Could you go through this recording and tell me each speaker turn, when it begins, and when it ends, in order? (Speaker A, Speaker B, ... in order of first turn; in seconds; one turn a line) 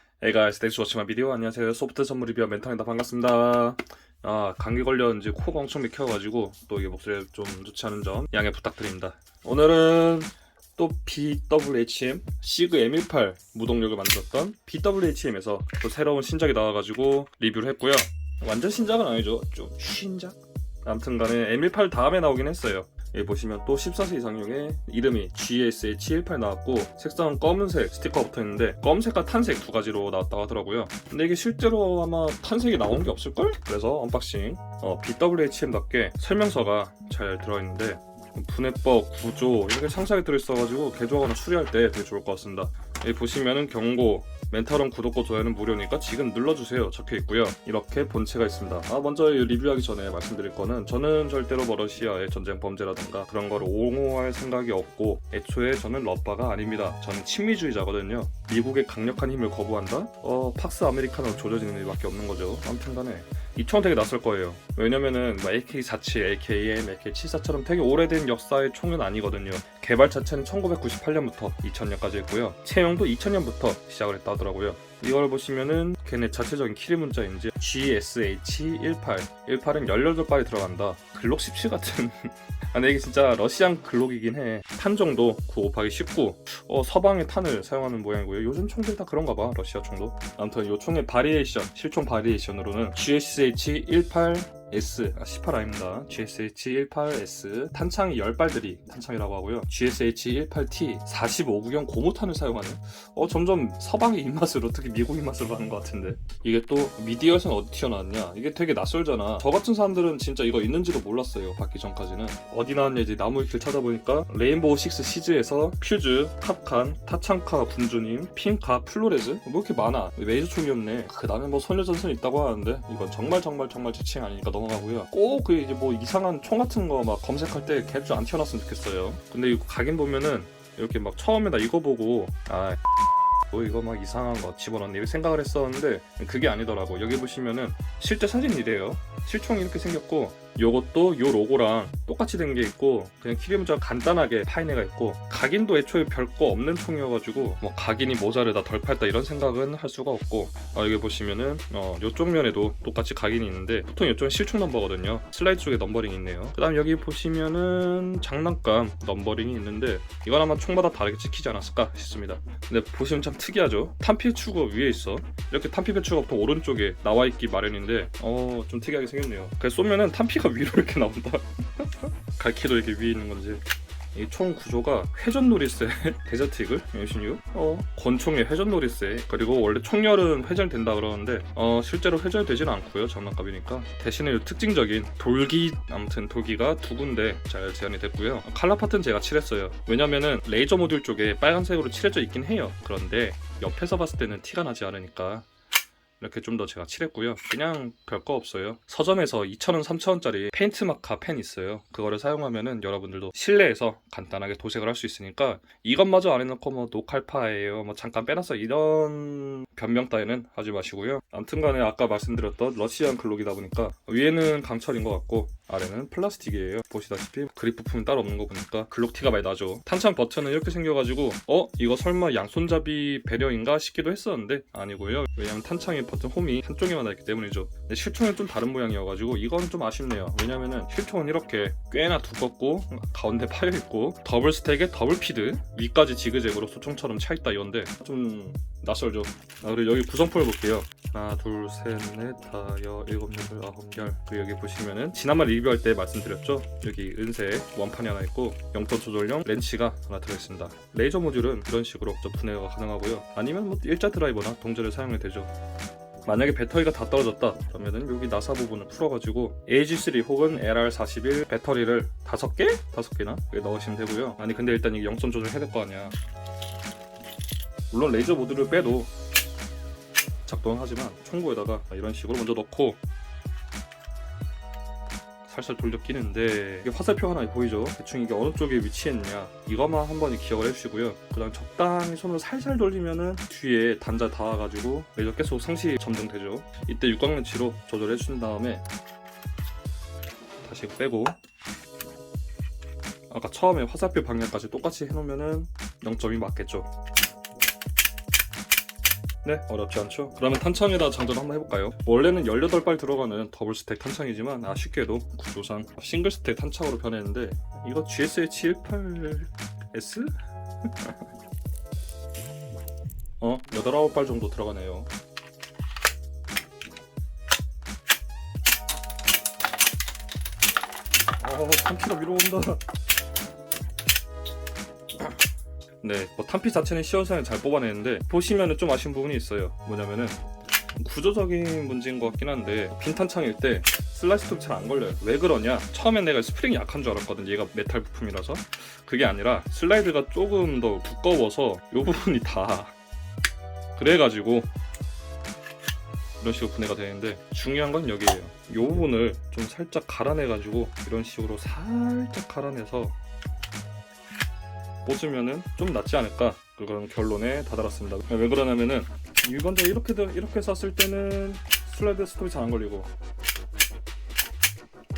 Speaker A: 0.2-132.8
Speaker A: 133.5-173.6
Speaker A: 174.1-195.5
Speaker A: 196.2-255.5
Speaker A: 256.2-266.2
Speaker A: 267.9-269.1
Speaker A: 270.5-273.0
Speaker A: 275.5-288.8
Speaker A: 290.6-291.4
Speaker A: 293.3-296.9
Speaker A: 299.4-310.3
Speaker A: 310.8-311.2
Speaker A: 313.4-315.1
Speaker A: 321.4-322.8
Speaker A: 326.0-330.4
Speaker A: 331.0-342.9
Speaker A: 344.0-344.7
Speaker A: 346.4-353.2
Speaker A: 355.0-363.1